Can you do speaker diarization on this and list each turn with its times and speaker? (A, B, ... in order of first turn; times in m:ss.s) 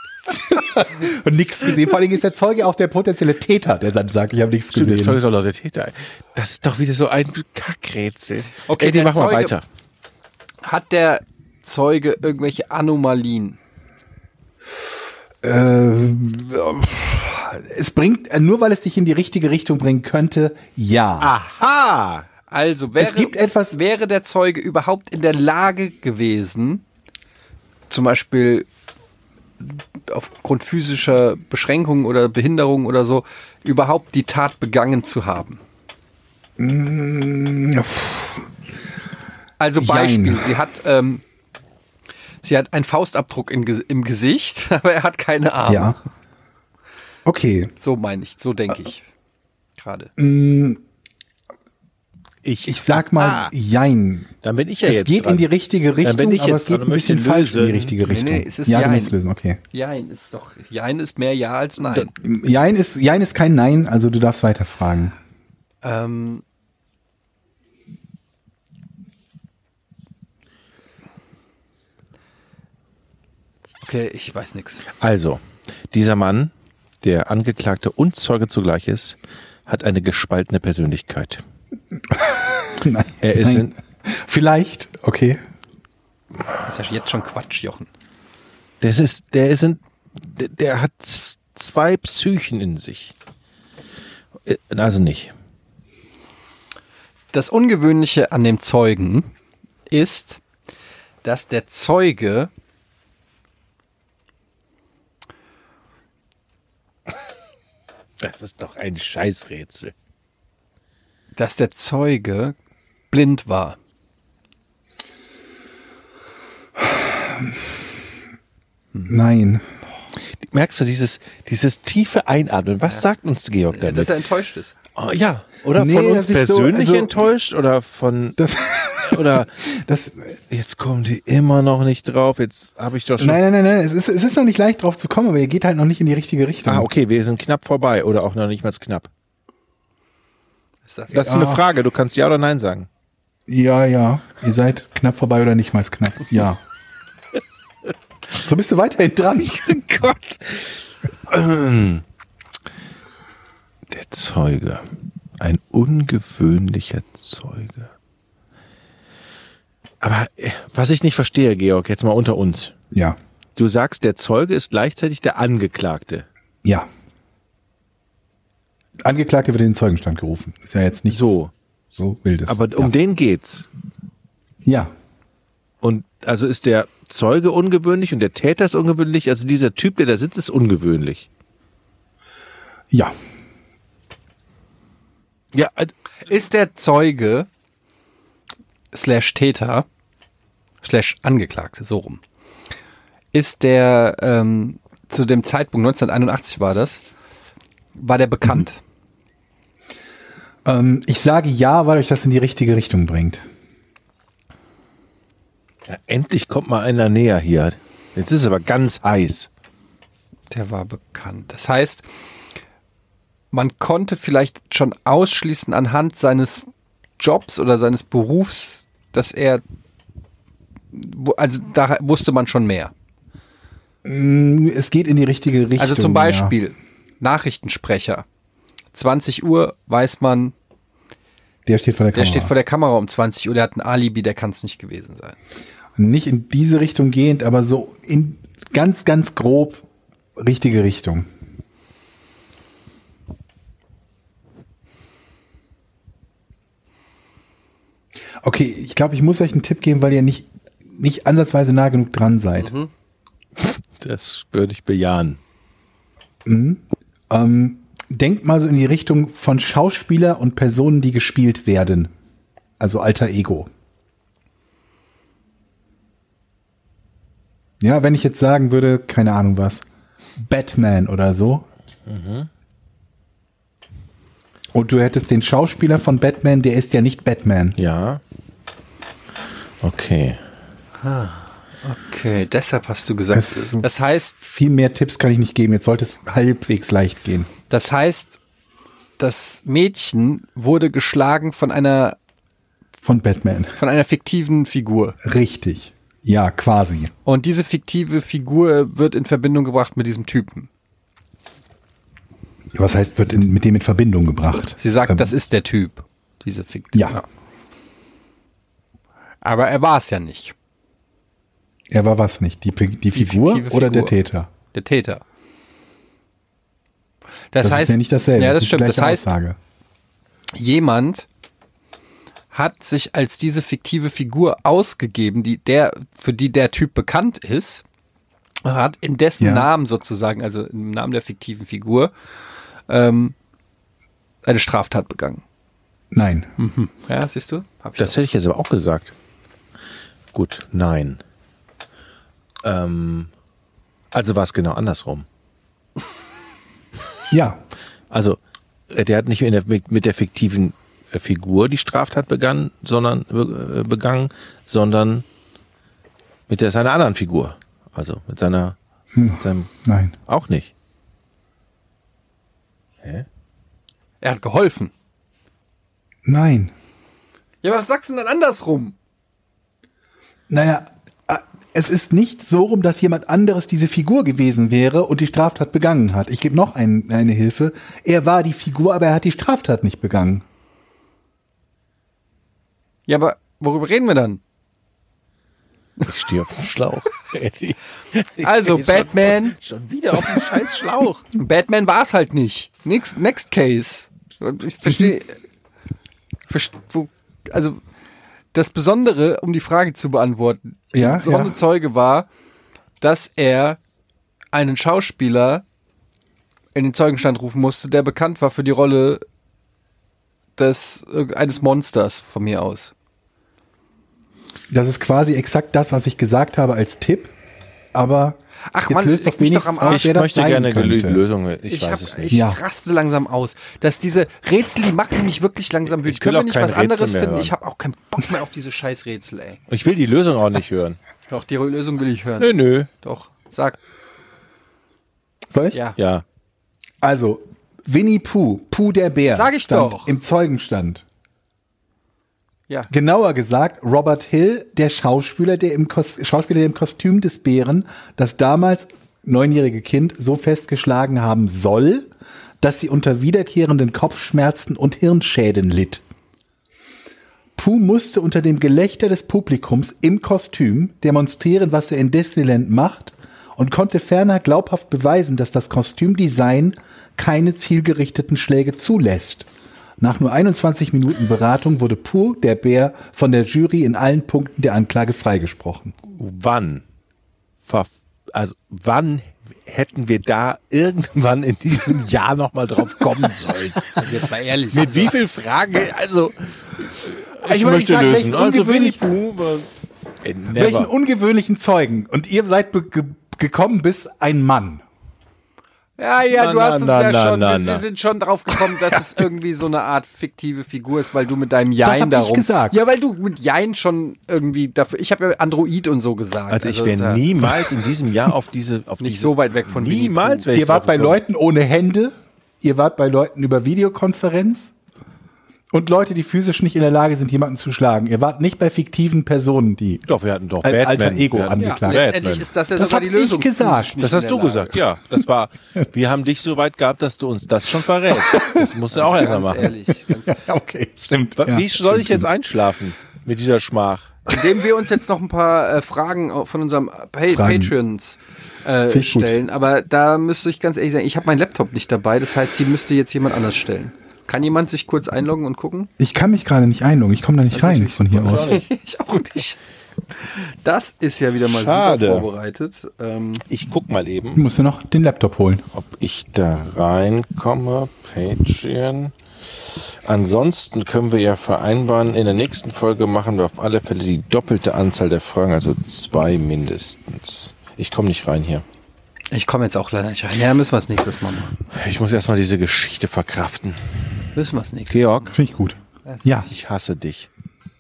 0:00.3-0:05.2 A
0:04.7-0:09.6 B
0:08.7-0:09.6 C
0:10.6-0:13.6 C
0:15.4-0:21.4 A
0:21.2-0:22.3 B
0:22.5-0:26.8 C
0:23.0-0:23.8 A
0:27.9-0:28.7 C
0:29.6-0:35.6 C
0:36.6-0:38.5 A
0:39.6-0:41.2 C
0:39.8-0:40.6 A
0:42.4-0:46.0 C
0:45.7-0:46.0 A
0:47.2-0:47.7 A
0:47.8-0:49.1 C
0:49.8-0:50.1 C
0:50.2-0:50.8 A
0:52.4-0:53.5 B
0:52.7-0:54.3 A
0:54.4-0:55.5 B
0:54.9-0:59.6 A
0:56.0-0:57.9 B
0:58.0-0:59.2 C
0:59.7-1:02.1 C
1:02.2-1:05.2 A
1:05.8-1:06.4 C
1:13.8-1:14.9 C
1:15.0-1:21.4 B
1:22.1-1:25.4 A
1:23.2-1:23.8 B
1:26.6-1:27.9 C
1:28.8-1:33.1 B
1:34.5-1:35.3 B
1:37.3-1:39.3 C
1:39.9-1:40.4 C
1:41.2-1:42.5 C
1:48.2-1:49.9 B
1:51.4-1:52.6 C
1:53.1-1:53.8 C
1:56.8-1:57.6 A
1:59.0-1:59.7 A
2:00.3-2:04.2 B
2:03.7-2:04.8 C
2:05.0-2:08.4 B
2:05.7-2:07.1 A
2:08.4-2:10.4 A
2:09.0-2:09.7 B
2:10.5-2:13.4 B
2:13.2-2:16.9 A
2:16.7-2:19.1 B
2:20.9-2:21.3 C
2:21.1-2:22.9 B
2:21.2-2:21.6 A
2:23.5-2:26.6 A
2:28.3-2:29.8 A
2:29.4-2:30.7 B
2:31.3-2:32.0 B
2:33.9-2:34.8 B
2:35.4-2:37.9 B
2:40.0-2:42.8 B
2:42.9-2:43.2 A
2:43.6-2:46.3 B
2:49.0-2:51.4 A
2:51.1-2:51.5 B
2:52.0-2:52.9 A
2:52.5-2:53.7 B
2:54.6-2:54.9 A
2:55.8-3:01.3 B
3:05.5-3:05.9 B
3:06.3-3:07.5 C
3:08.9-3:09.9 C
3:10.8-3:12.2 C
3:13.3-3:17.1 C
3:18.0-3:18.8 C
3:20.6-3:23.4 A
3:25.9-3:29.5 B
3:30.5-3:32.1 C
3:33.5-3:36.6 C
3:37.2-3:39.6 C
3:40.9-3:42.9 C
3:44.0-3:46.6 A
3:45.8-3:48.2 C
3:48.9-3:50.6 C
3:51.7-3:52.5 A
3:52.1-3:55.4 C
3:56.0-3:59.8 A
4:00.4-4:01.3 A
4:08.4-4:12.8 A
4:12.6-4:12.9 C
4:13.6-4:15.4 B
4:16.5-4:22.1 A
4:22.8-4:23.7 A
4:27.8-4:29.8 A
4:30.4-4:31.7 A
4:32.1-4:32.5 B
4:34.7-4:37.8 A
4:37.8-4:38.2 B
4:39.8-4:40.4 B
4:41.0-4:44.4 C
4:43.3-4:43.9 A
4:44.4-4:47.5 A
4:47.7-4:48.4 C
4:49.2-4:52.2 C
4:53.0-4:53.8 A
4:53.8-4:55.2 C
4:55.2-4:57.1 A
4:57.3-5:00.7 C
5:02.8-5:05.3 A
5:04.8-5:07.2 C
5:06.9-5:07.2 A
5:09.4-5:10.6 C
5:11.9-5:14.5 A
5:13.1-5:14.2 C
5:14.7-5:15.2 C
5:17.5-5:19.3 C
5:17.6-5:19.6 A
5:20.5-5:21.3 C
5:22.5-5:27.8 C
5:28.6-5:32.1 C
5:29.4-5:29.7 A
5:32.9-5:33.4 C
5:34.4-5:35.4 C
5:36.1-5:36.5 A
5:36.6-5:38.2 C
5:38.0-5:39.1 B
5:40.3-5:41.2 B
5:42.6-5:43.3 B
5:44.1-5:45.3 B
5:47.3-5:47.6 A
5:48.1-5:48.4 B
5:48.9-5:55.2 B
5:56.5-5:58.8 B
5:59.1-6:00.2 A
5:59.4-5:59.7 B
6:00.3-6:00.7 B
6:04.2-6:04.9 C
6:06.3-6:06.7 A
6:07.6-6:09.0 C
6:10.5-6:20.4 A
6:23.1-6:24.4 C
6:26.0-6:31.2 B
6:28.4-6:29.6 C
6:31.3-6:35.4 C
6:36.5-6:37.8 C
6:38.5-6:42.3 C
6:40.9-6:41.6 A
6:43.0-6:43.8 C
6:44.5-6:45.6 C
6:46.8-6:49.2 C
6:50.6-6:52.9 C
6:54.7-6:57.3 A
6:57.9-7:01.2 A
6:58.7-7:00.1 C
6:59.8-7:02.4 B
7:01.7-7:09.6 C
7:02.3-7:02.6 A
7:05.9-7:07.5 B
7:09.7-7:11.0 B
7:11.3-7:13.8 C
7:12.4-7:12.9 B
7:15.5-7:15.8 A
7:16.0-7:16.2 B
7:17.0-7:21.0 A
7:19.3-7:20.2 C
7:22.9-7:36.0 A
7:37.6-7:49.5 A
7:50.0-7:56.0 A
7:56.1-7:56.8 B
7:57.6-8:09.7 B
8:04.0-8:05.2 C
8:07.4-8:09.0 A
8:10.2-8:10.9 B
8:10.5-8:14.8 A
8:16.0-8:27.6 C
8:16.3-8:17.8 B
8:21.8-8:22.8 A
8:26.5-8:31.2 B
8:29.0-8:30.5 C
8:30.5-8:34.7 A
8:35.7-8:40.0 A
8:40.1-8:42.5 B
8:40.6-8:42.1 A
8:41.6-8:44.8 C
8:42.8-8:44.0 A
8:44.0-8:49.7 B
8:48.2-8:48.7 A
8:49.0-8:50.4 C
8:50.2-8:52.3 A
8:51.4-8:54.2 B
8:54.3-9:05.9 C
8:57.3-8:57.7 A
8:58.9-8:59.4 A
9:06.0-9:08.6 A
9:07.5-9:09.6 C
9:08.3-9:08.6 B
9:10.2-9:13.4 C
9:11.4-9:12.3 B
9:13.5-9:14.4 B
9:14.4-9:15.6 A
9:15.7-9:28.6 B
9:29.3-9:31.6 C
9:31.7-9:34.3 B
9:34.4-9:35.4 C
9:34.9-9:35.4 B
9:35.3-9:36.5 A
9:36.0-9:36.5 C
9:36.5-9:37.3 B